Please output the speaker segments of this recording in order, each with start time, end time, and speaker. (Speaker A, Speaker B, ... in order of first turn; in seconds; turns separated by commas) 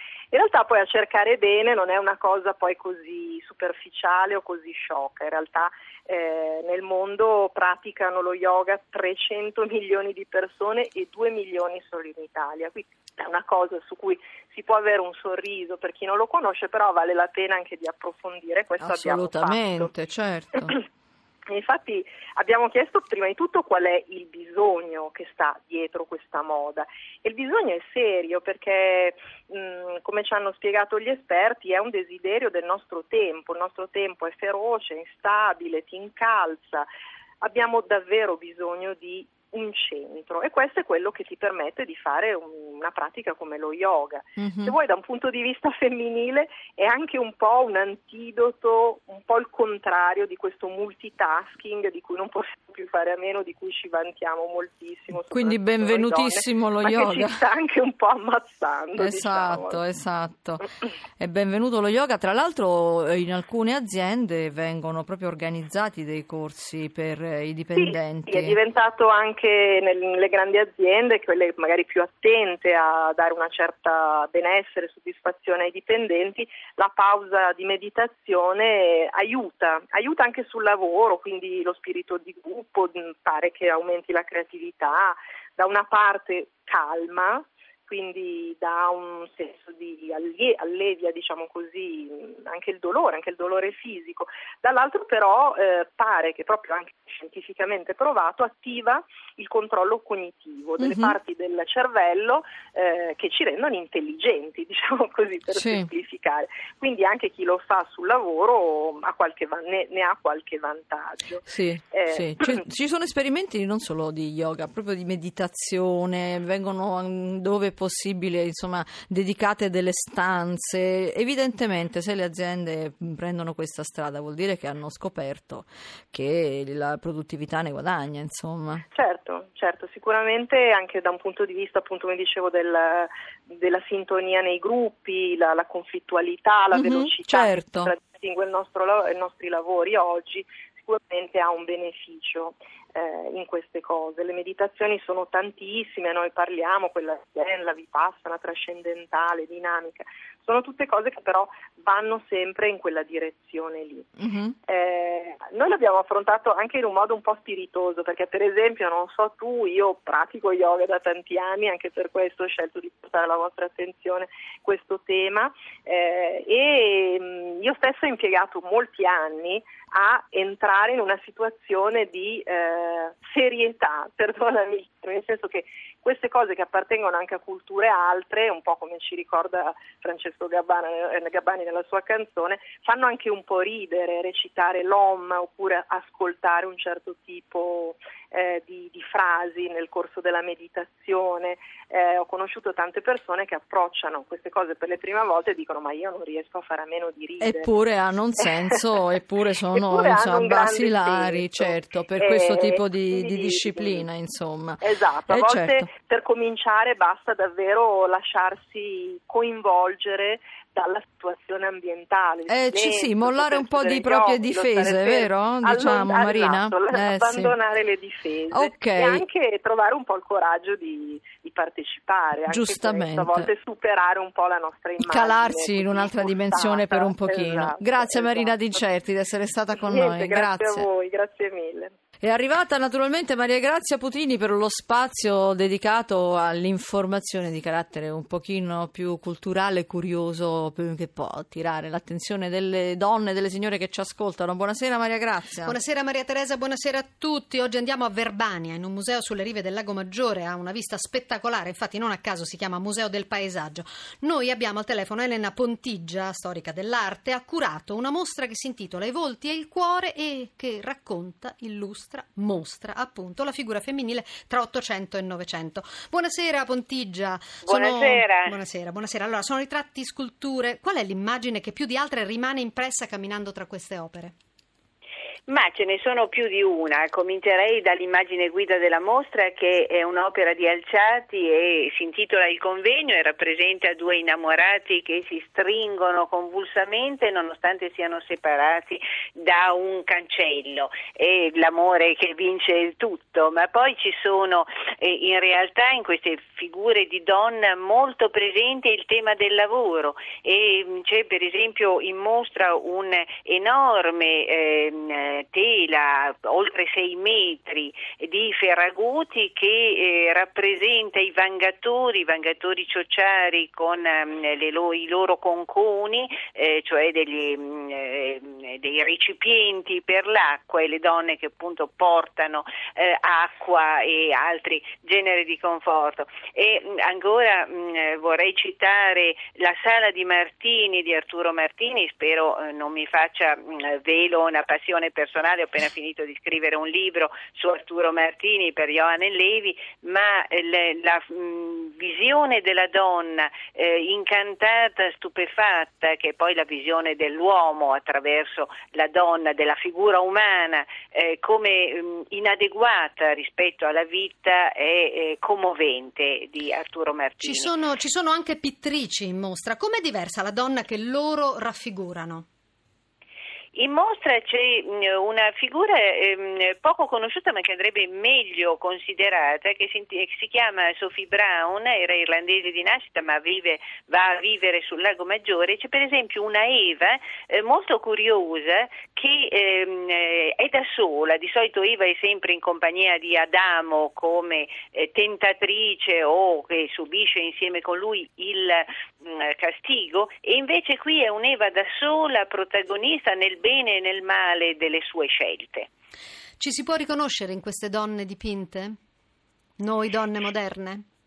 Speaker A: 0.3-19.9, Speaker B: 18.8-20.8, Speaker A: 21.5-36.9, Speaker A: 37.4-59.8, Speaker B: 44.4-44.8, Speaker B: 55.2-57.4, Speaker B: 59.0-60.7, Speaker B: 61.2-68.6, Speaker A: 67.8-112.6, Speaker B: 100.8-101.2, Speaker B: 105.5-105.9, Speaker B: 111.5-128.8, Speaker A: 128.9-154.1, Speaker B: 136.7-137.9, Speaker B: 154.2-154.6, Speaker A: 154.7-197.7, Speaker B: 197.4-205.9, Speaker A: 198.4-198.6, Speaker A: 199.8-204.1, Speaker A: 204.8-228.8, Speaker B: 212.5-217.6, Speaker B: 218.5-219.2, Speaker B: 222.5-223.5, Speaker B: 225.0-230.9, Speaker A: 229.8-231.9, Speaker B: 232.2-245.8, Speaker C: 245.6-274.3, Speaker D: 267.6-268.6, Speaker D: 275.5-357.7, Speaker C: 357.4-362.5, Speaker D: 363.8-395.9, Speaker C: 396.6-399.0, Speaker C: 399.8-401.0